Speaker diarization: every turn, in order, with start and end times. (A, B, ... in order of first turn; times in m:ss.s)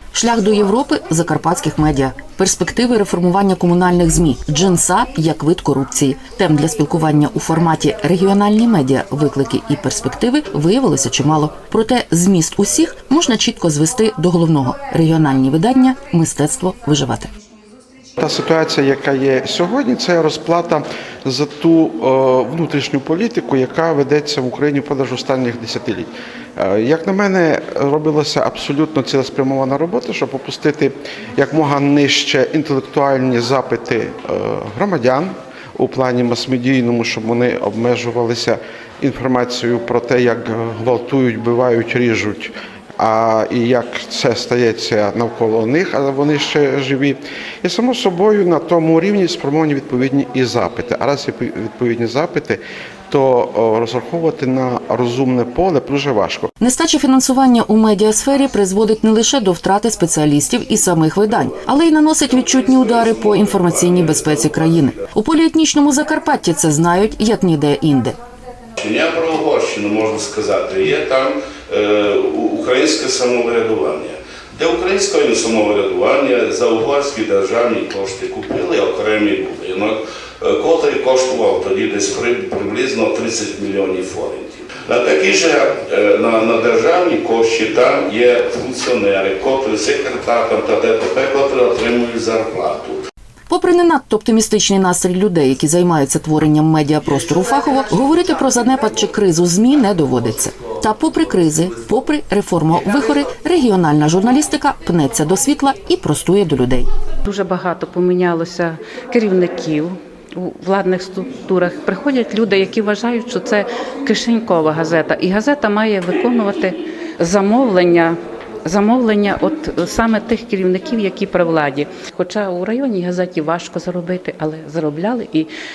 0:00.1-0:17.3 A
0:18.2-0:56.5 B
0:56.6-1:08.2 A
1:02.3-1:05.0 C
1:08.8-1:33.0 C
1:33.5-1:46.9 A
1:47.2-2:05.5 D